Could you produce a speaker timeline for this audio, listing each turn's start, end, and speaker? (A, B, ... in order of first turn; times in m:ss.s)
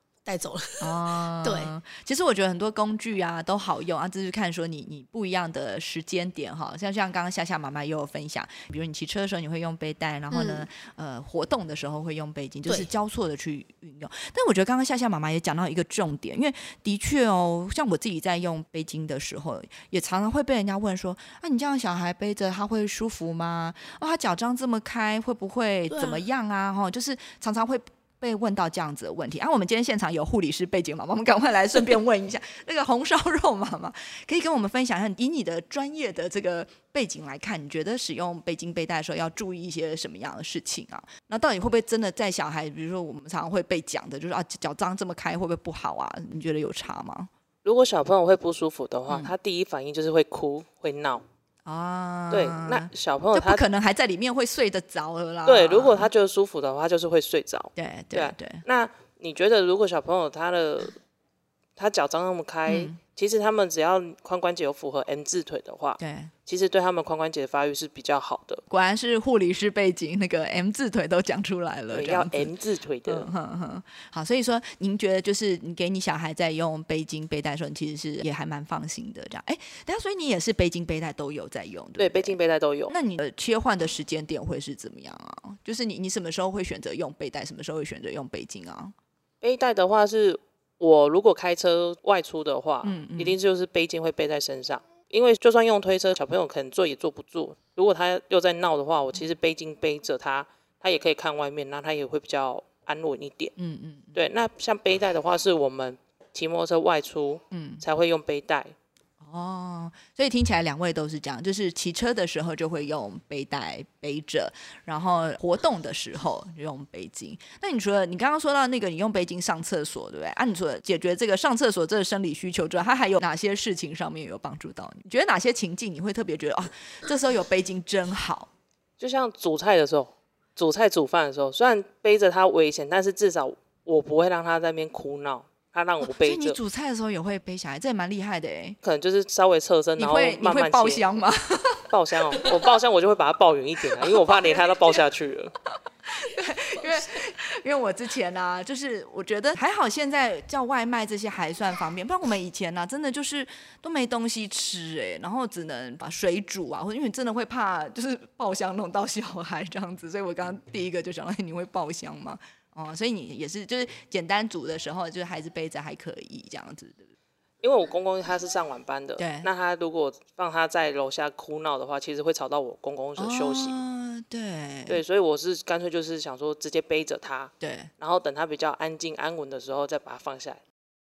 0:00.2-0:01.7 A
0:00.8-0:47.3 B
0:10.3-0:10.6 A
0:25.9-0:26.2 A
0:47.6-0:51.2 C
0:51.6-0:56.1 B
0:52.3-0:53.6 C
0:55.4-1:01.0 C
0:57.8-0:58.6 B
1:01.8-1:08.6 C
1:02.7-1:03.0 B
1:06.0-1:06.3 B
1:08.7-1:12.5 B
1:11.9-1:13.3 C
1:13.0-1:22.4 B
1:22.0-1:22.9 C
1:22.9-1:28.9 B
1:29.4-1:43.5 C
1:32.8-1:33.4 B
1:43.6-1:44.2 B
1:44.1-1:48.7 C
1:47.5-1:47.8 B
1:49.2-2:08.5 B
2:09.0-2:16.6 C
2:16.0-2:18.8 B
2:18.8-2:21.0 C
2:20.0-2:21.8 B
2:21.9-2:25.6 C
2:24.0-2:24.6 B
2:26.1-2:47.1 B
2:47.6-2:53.8 C
2:49.2-2:49.5 B
2:53.2-2:55.0 B
2:54.9-3:00.6 C
2:57.6-2:57.9 B